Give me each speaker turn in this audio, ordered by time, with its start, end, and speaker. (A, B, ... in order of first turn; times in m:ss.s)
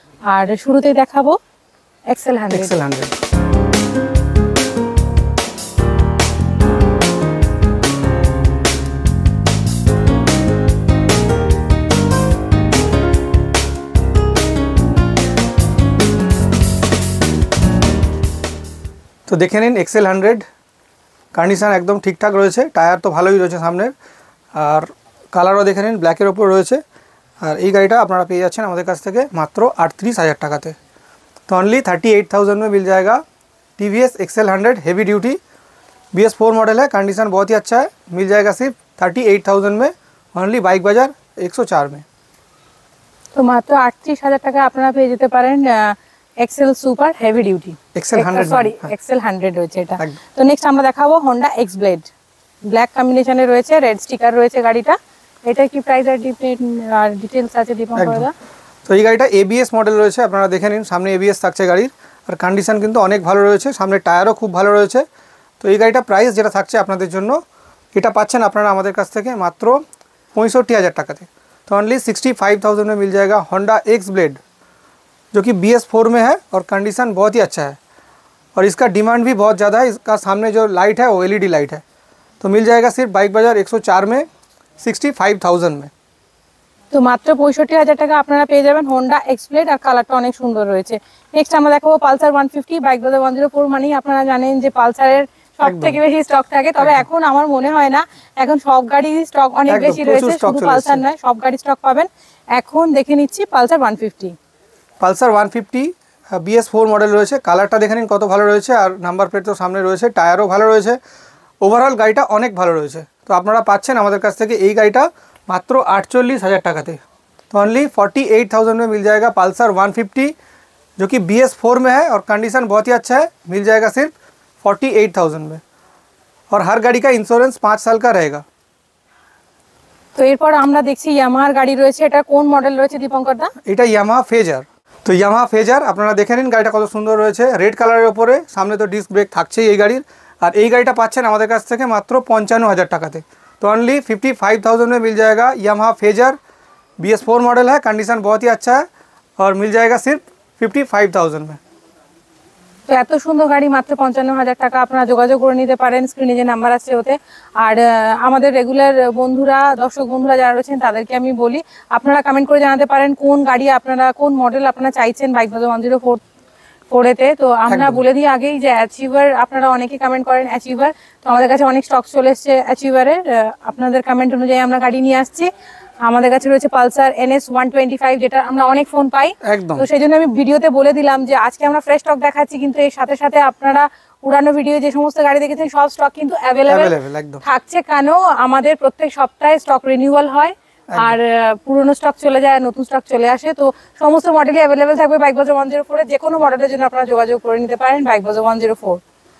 0:00.3-0:01.4 A
0:02.1-0:02.8 A
0:02.5-0:03.1 B
0:19.3-0:20.4 B
0:21.3-0:23.9 B
0:24.5-0:26.8 B
0:27.4-0:30.8 B
0:31.5-0:33.2 B
0:33.8-0:35.4 B
0:36.1-0:42.0 B
0:43.3-0:52.1 A
0:47.9-0:48.9 B
0:52.6-0:58.3 A
0:58.0-0:58.3 B
0:58.8-1:05.0 B
1:05.6-1:07.4 B
1:07.9-1:09.8 B
1:10.3-1:14.4 B
1:15.3-1:17.8 B
1:18.5-1:21.8 B
1:22.4-1:24.3 B
1:24.8-1:25.9 B
1:26.9-1:44.3 A
1:35.6-1:36.0 B
1:36.8-1:37.0 B
1:39.7-1:41.0 B
1:45.0-1:51.0 B
1:51.6-1:57.0 B
1:57.5-2:00.3 B
2:01.0-2:05.6 B
2:06.5-2:08.4 B
2:10.1-2:13.5 A
2:13.6-2:26.4 B
2:27.0-2:28.8 B
2:29.4-2:31.6 B
2:32.9-2:46.2 A
2:46.9-2:55.5 A
2:47.7-2:48.0 B
2:56.0-3:19.0 A
2:59.4-2:59.9 B
3:06.7-3:07.4 B
3:10.9-3:11.2 B